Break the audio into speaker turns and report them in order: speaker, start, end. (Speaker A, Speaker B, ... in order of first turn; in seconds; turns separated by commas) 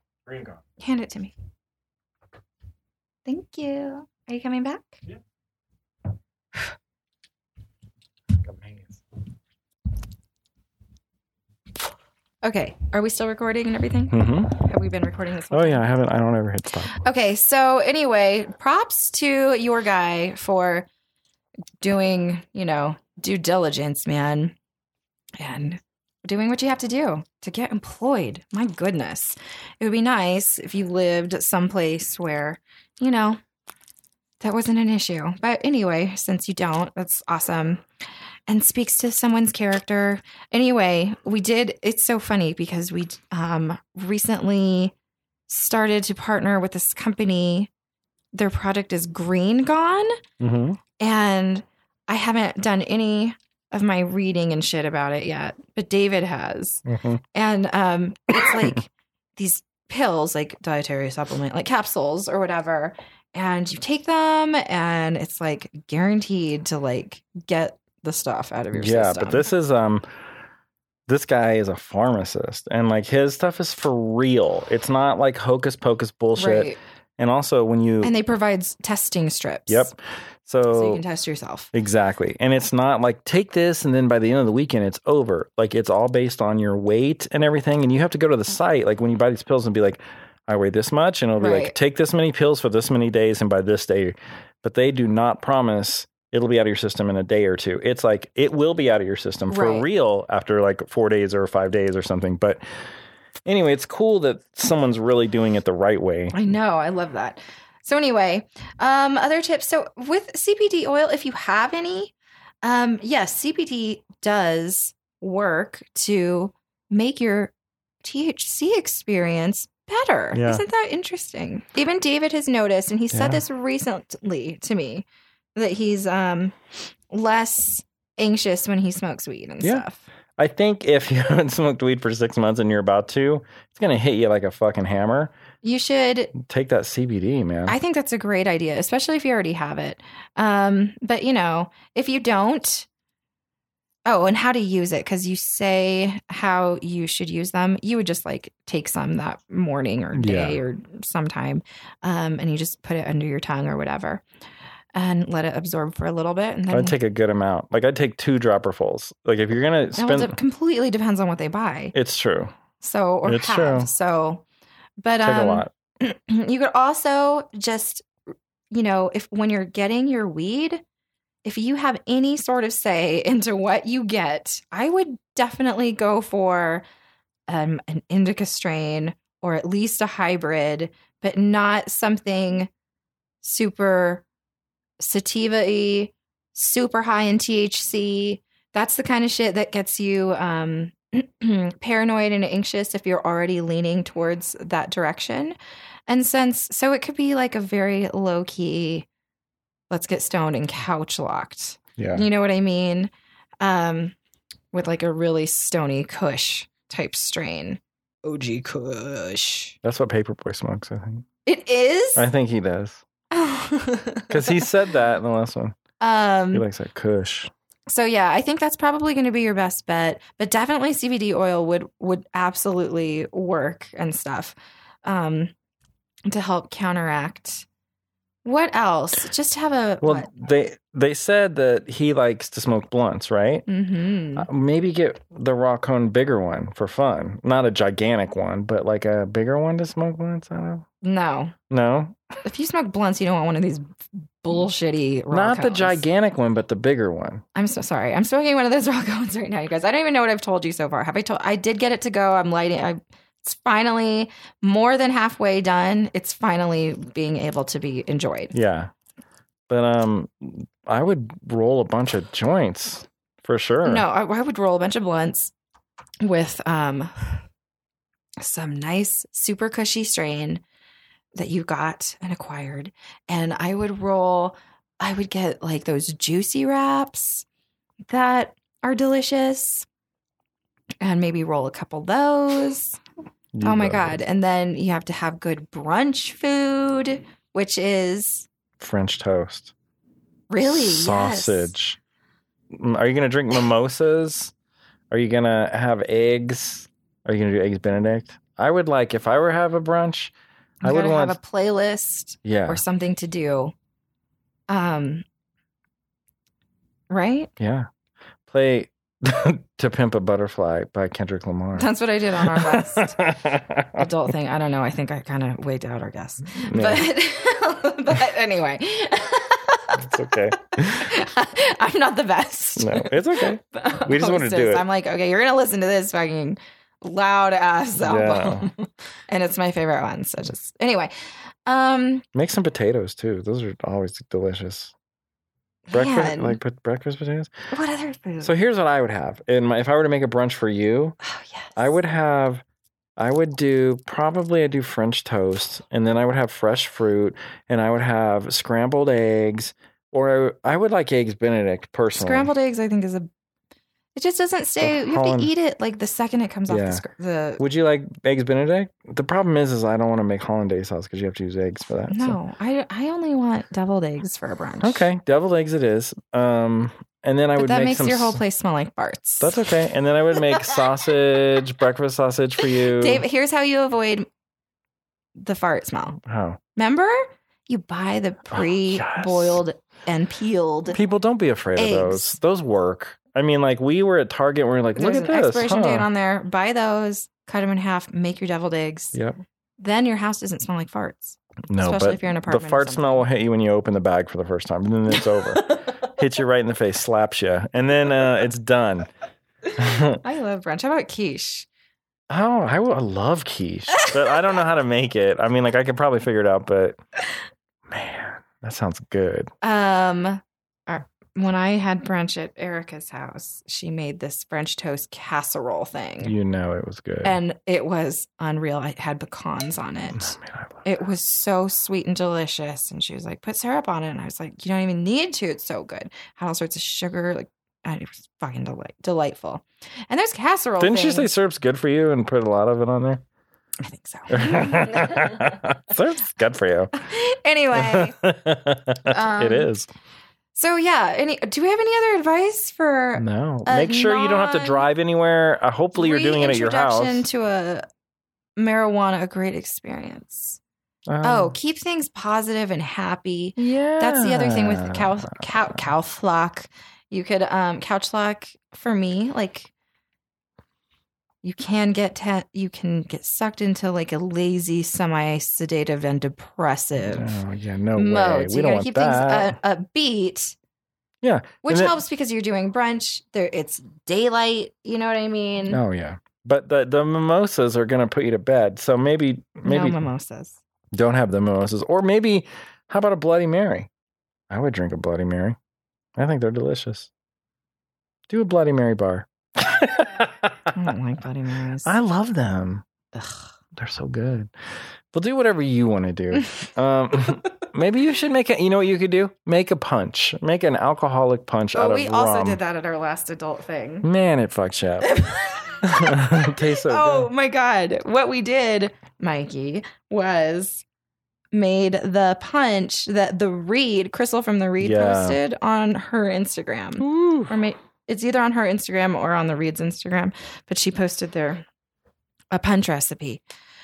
Speaker A: 0.2-0.6, Speaker B: 0.8-1.3, Speaker B: 3.2-5.0, Speaker A: 8.3-9.0, Speaker B: 12.4-15.8, Speaker A: 14.1-14.5, Speaker A: 15.5-16.9, Speaker B: 16.9-20.9, Speaker B: 21.8-24.6, Speaker B: 25.4-33.4, Speaker B: 34.4-37.8, Speaker B: 38.5-44.9, Speaker B: 45.5-47.7, Speaker B: 48.3-50.2, Speaker A: 50.4-50.8, Speaker B: 51.0-69.5, Speaker A: 56.9-57.2, Speaker A: 68.7-70.0, Speaker A: 71.1-78.1, Speaker B: 76.3-76.8, Speaker B: 78.0-79.9, Speaker A: 79.7-81.0, Speaker B: 80.7-81.7, Speaker A: 81.7-102.6, Speaker B: 91.4-91.7, Speaker B: 99.5-99.8, Speaker A: 103.4-106.4, Speaker B: 106.3-126.5, Speaker A: 120.3-120.6, Speaker A: 123.1-123.4, Speaker B: 127.1-130.1, Speaker A: 130.4-135.3, Speaker B: 135.6-136.3, Speaker A: 136.3-137.8, Speaker B: 137.7-142.9, Speaker B: 144.1-154.2, Speaker A: 150.1-150.6, Speaker B: 154.9-156.9, Speaker A: 156.7-160.3, Speaker B: 160.0-161.9, Speaker A: 161.9-162.5, Speaker B: 162.8-164.4, Speaker A: 163.2-163.9, Speaker B: 165.0-168.1, Speaker A: 165.2-165.7, Speaker B: 168.7-170.8, Speaker B: 171.4-176.8, Speaker B: 177.5-182.7, Speaker B: 183.4-184.2, Speaker B: 185.0-195.6, Speaker B: 196.1-199.1, Speaker B: 199.9-204.1, Speaker A: 202.0-202.2, Speaker B: 204.7-209.8, Speaker A: 209.8-211.2, Speaker B: 211.4-212.2, Speaker A: 212.2-213.0, Speaker B: 213.3-214.7, Speaker A: 214.3-215.8, Speaker B: 216.0-216.7, Speaker A: 216.5-217.5, Speaker B: 217.9-225.5, Speaker B: 226.3-227.7, Speaker B: 228.4-230.3, Speaker A: 230.0-233.7, Speaker B: 233.7-234.5, Speaker A: 234.4-240.8, Speaker B: 241.0-241.5, Speaker A: 241.7-242.2, Speaker B: 242.4-246.0, Speaker A: 245.3-247.4, Speaker B: 247.5-258.5, Speaker A: 258.5-258.9, Speaker A: 259.7-264.0, Speaker B: 263.8-265.5, Speaker B: 266.2-267.4, Speaker B: 268.4-270.6, Speaker B: 271.3-277.4, Speaker B: 278.1-279.9, Speaker B: 281.0-283.0, Speaker A: 283.5-284.2, Speaker B: 283.6-288.5, Speaker A: 288.8-289.7, Speaker B: 290.5-291.7, Speaker A: 290.6-292.0, Speaker A: 292.7-294.5, Speaker A: 295.1-301.4, Speaker B: 300.8-303.7, Speaker A: 302.4-302.8, Speaker B: 304.7-305.2, Speaker B: 307.1-307.5, Speaker A: 307.6-307.9, Speaker A: 308.5-314.1, Speaker B: 311.8-313.2, Speaker B: 313.9-331.1, Speaker A: 316.6-317.1, Speaker A: 319.9-321.1, Speaker A: 322.8-324.8, Speaker A: 328.0-328.7, Speaker B: 331.6-332.2, Speaker A: 332.3-334.9, Speaker B: 335.9-336.6, Speaker A: 335.9-337.5, Speaker B: 337.7-338.5, Speaker A: 338.4-341.2, Speaker B: 341.2-341.8, Speaker A: 341.8-342.6, Speaker A: 343.2-352.5, Speaker B: 352.1-353.3, Speaker B: 354.1-357.6, Speaker A: 354.8-355.5, Speaker A: 356.7-357.0, Speaker A: 357.6-362.4, Speaker B: 362.1-365.1, Speaker A: 364.8-368.4, Speaker B: 367.6-369.7, Speaker A: 369.4-373.2, Speaker B: 370.5-370.8, Speaker B: 372.8-374.3, Speaker B: 375.4-376.2, Speaker A: 376.2-376.6, Speaker B: 376.7-381.0, Speaker A: 378.5-379.6, Speaker A: 380.9-386.1, Speaker B: 381.8-382.4, Speaker B: 384.9-389.2, Speaker B: 389.8-393.2, Speaker A: 391.7-399.1, Speaker A: 399.8-400.2, Speaker B: 400.0-401.7, Speaker A: 402.3-407.0, Speaker A: 407.9-409.5, Speaker B: 409.6-416.3, Speaker A: 416.2-417.4, Speaker B: 417.2-431.3, Speaker A: 420.1-420.9, Speaker A: 430.8-433.2, Speaker B: 433.8-435.5, Speaker A: 434.3-436.9, Speaker B: 436.9-438.1, Speaker A: 437.7-439.9, Speaker B: 439.1-439.7, Speaker B: 440.5-444.8, Speaker A: 443.1-447.3, Speaker B: 445.9-447.9, Speaker B: 448.6-450.6, Speaker A: 451.1-451.5, Speaker B: 451.2-459.7, Speaker A: 453.6-455.8, Speaker B: 461.4-467.4, Speaker A: 467.0-469.5, Speaker B: 467.9-470.6, Speaker A: 471.2-471.9, Speaker B: 471.6-475.8, Speaker A: 475.7-480.0, Speaker B: 479.6-480.6, Speaker A: 480.9-483.9, Speaker A: 484.5-485.6, Speaker A: 486.1-487.1, Speaker A: 488.3-490.7, Speaker B: 490.7-491.9, Speaker A: 491.8-492.8, Speaker A: 493.7-494.5, Speaker A: 495.1-502.6, Speaker B: 501.7-504.1, Speaker A: 504.0-505.1, Speaker B: 505.0-510.8, Speaker A: 505.8-507.3, Speaker B: 511.5-521.6, Speaker A: 514.8-515.4, Speaker A: 517.0-517.5, Speaker B: 522.5-523.4